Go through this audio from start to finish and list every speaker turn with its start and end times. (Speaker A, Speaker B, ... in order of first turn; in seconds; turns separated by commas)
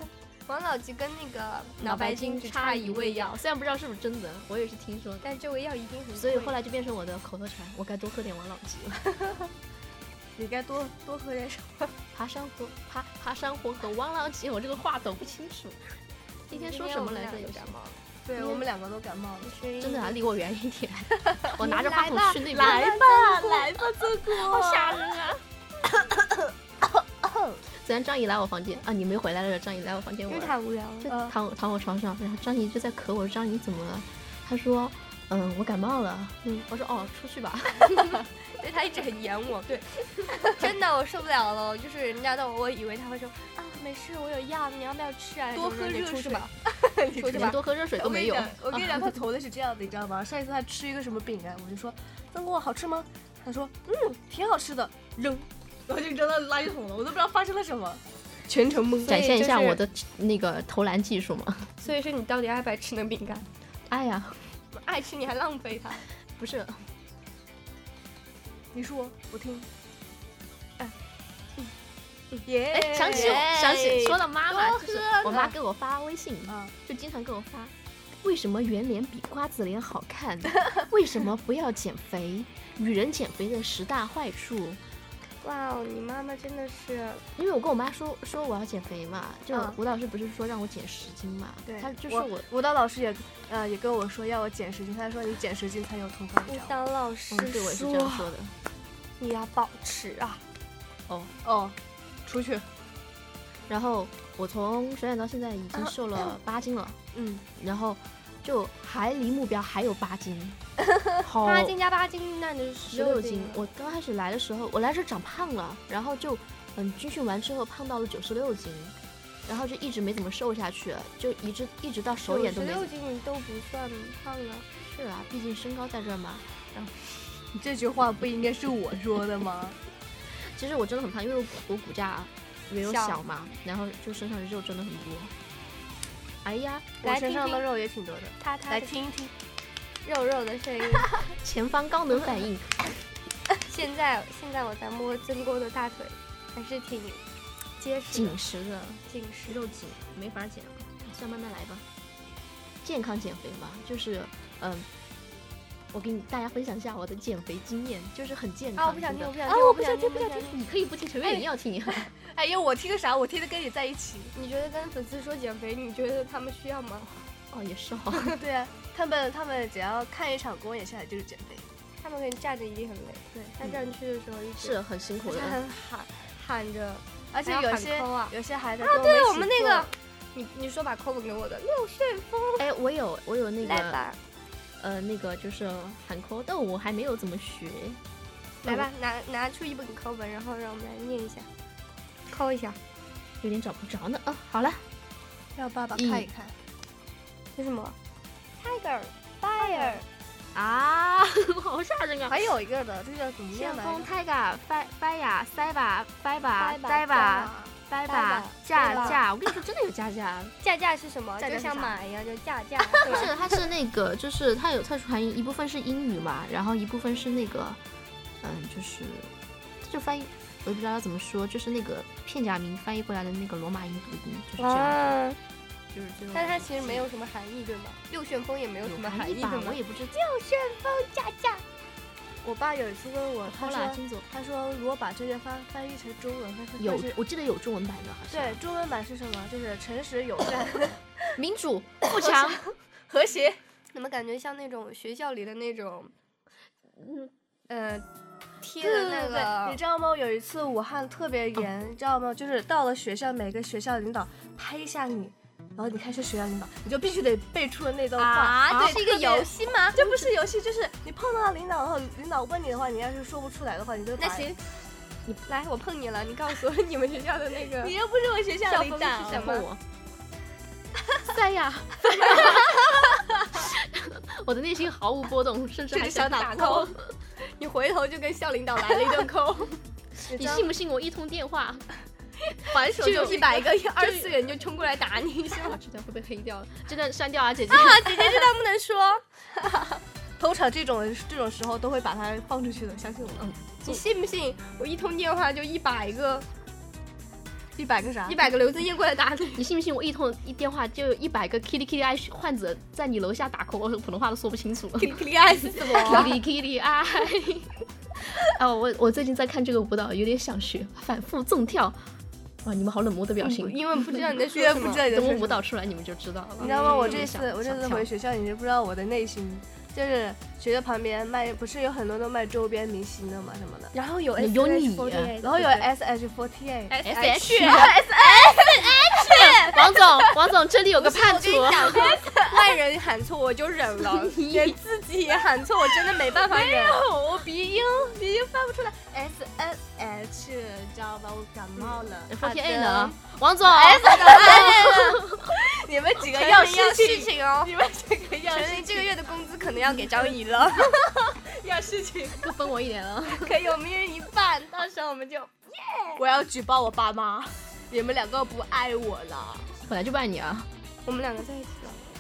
Speaker A: 0.5-3.4, Speaker B: 1.8-5.3, Speaker A: 5.2-6.6, Speaker B: 6.2-9.1, Speaker C: 10.4-11.9, Speaker B: 12.1-15.9, Speaker B: 16.5-17.8, Speaker A: 16.5-18.0, Speaker C: 18.2-19.6, Speaker A: 19.4-20.2, Speaker B: 19.8-23.4, Speaker A: 21.6-23.5, Speaker C: 22.3-25.1, Speaker B: 24.2-25.4, Speaker C: 25.9-26.4, Speaker C: 27.2-27.6, Speaker B: 27.7-38.2, Speaker A: 30.3-31.1, Speaker C: 31.1-31.4, Speaker A: 38.5-46.5, Speaker C: 45.5-58.0, Speaker A: 47.1-47.6, Speaker B: 47.2-49.1, Speaker A: 58.5-59.8, Speaker B: 59.1-61.7, Speaker A: 61.8-63.5, Speaker B: 63.9-64.4, Speaker A: 64.7-66.0, Speaker B: 66.4-66.8, Speaker C: 68.7-69.7, Speaker A: 72.3-75.5, Speaker C: 72.5-73.5, Speaker B: 72.7-84.8, Speaker C: 76.5-76.7, Speaker A: 85.4-87.2, Speaker B: 87.4-92.5, Speaker C: 89.5-89.8, Speaker C: 91.7-96.8, Speaker A: 96.5-98.3, Speaker B: 97.3-98.5, Speaker A: 99.2-100.4, Speaker B: 101.1-101.3, Speaker C: 101.4-101.8, Speaker C: 102.3-102.7, Speaker B: 103.7-107.0, Speaker C: 107.1-107.5, Speaker B: 107.6-110.6, Speaker B: 111.2-111.8, Speaker A: 111.4-113.6, Speaker B: 112.9-122.9, Speaker A: 122.3-124.7, Speaker B: 124.8-126.5, Speaker C: 127.5-129.8, Speaker B: 130.4-135.3, Speaker A: 132.8-133.2, Speaker B: 136.4-137.0, Speaker A: 137.0-137.6, Speaker C: 137.0-139.3, Speaker A: 138.4-139.1, Speaker A: 140.0-141.2, Speaker B: 141.4-142.9, Speaker A: 143.7-147.2, Speaker A: 147.8-148.4, Speaker B: 148.1-151.8, Speaker A: 149.1-149.6, Speaker B: 152.8-154.9, Speaker B: 155.9-162.1, Speaker C: 158.8-160.4, Speaker A: 159.2-160.6, Speaker C: 161.2-164.3, Speaker A: 164.3-167.1, Speaker B: 167.5-168.4, Speaker C: 168.4-171.7, Speaker A: 172.0-182.7, Speaker B: 174.6-175.6, Speaker C: 177.3-179.9, Speaker B: 182.6-184.1, Speaker A: 183.6-184.2, Speaker B: 184.8-188.0, Speaker A: 188.6-191.5, Speaker A: 192.3-192.8, Speaker B: 193.4-194.8, Speaker C: 195.6-196.5, Speaker B: 195.9-196.3, Speaker A: 197.6-197.9, Speaker A: 198.6-200.0, Speaker C: 199.6-200.0, Speaker B: 200.5-202.5, Speaker C: 202.3-204.1, Speaker B: 203.5-210.5, Speaker A: 206.6-207.4, Speaker C: 207.2-207.7, Speaker A: 208.1-209.2, Speaker C: 208.8-209.2, Speaker A: 210.6-213.3, Speaker C: 211.4-212.0, Speaker B: 213.0-217.8, Speaker B: 218.4-225.2, Speaker A: 224.6-225.4, Speaker B: 225.9-227.1, Speaker A: 226.3-231.6, Speaker B: 228.8-230.2, Speaker C: 232.4-237.2, Speaker B: 233.5-234.3, Speaker B: 236.8-238.6, Speaker C: 238.3-241.0, Speaker B: 241.4-242.6, Speaker C: 242.1-243.6, Speaker A: 243.9-246.1, Speaker B: 247.0-247.3, Speaker A: 247.7-248.1, Speaker A: 248.6-249.8, Speaker C: 248.8-264.6, Speaker A: 258.2-260.1, Speaker B: 258.7-259.1, Speaker A: 264.2-264.6, Speaker A: 265.5-267.9, Speaker C: 267.8-269.5, Speaker A: 268.7-269.7, Speaker B: 269.2-269.8, Speaker B: 271.2-277.1, Speaker C: 275.9-276.8, Speaker A: 276.2-279.8, Speaker B: 280.2-281.9, Speaker C: 280.3-280.7, Speaker A: 282.6-285.8, Speaker C: 282.8-283.6, Speaker B: 282.8-284.4, Speaker B: 285.6-288.4, Speaker A: 287.7-289.2, Speaker C: 290.4-293.5, Speaker B: 293.4-294.0, Speaker A: 293.9-296.5, Speaker C: 297.8-298.4, Speaker A: 298.3-299.6, Speaker B: 299.6-312.0, Speaker A: 305.0-306.3, Speaker B: 312.6-314.2, Speaker A: 313.4-315.1, Speaker C: 314.5-315.6, Speaker B: 315.1-318.1, Speaker A: 316.6-317.2, Speaker C: 316.6-323.9, Speaker A: 323.9-325.9, Speaker B: 324.4-325.4, Speaker C: 325.4-327.0, Speaker A: 326.9-330.0, Speaker B: 327.0-328.1, Speaker C: 327.6-329.6, Speaker B: 329.1-332.2, Speaker A: 331.0-337.0, Speaker C: 332.0-332.5, Speaker B: 334.0-334.8, Speaker C: 336.0-342.3, Speaker B: 342.3-345.5, Speaker A: 342.4-343.2, Speaker A: 343.7-345.2, Speaker C: 343.7-349.2, Speaker A: 346.3-347.7, Speaker A: 348.5-350.9, Speaker C: 350.7-352.5, Speaker B: 352.4-353.6, Speaker A: 353.3-356.2, Speaker C: 356.2-359.7, Speaker B: 359.8-360.7, Speaker A: 361.1-362.0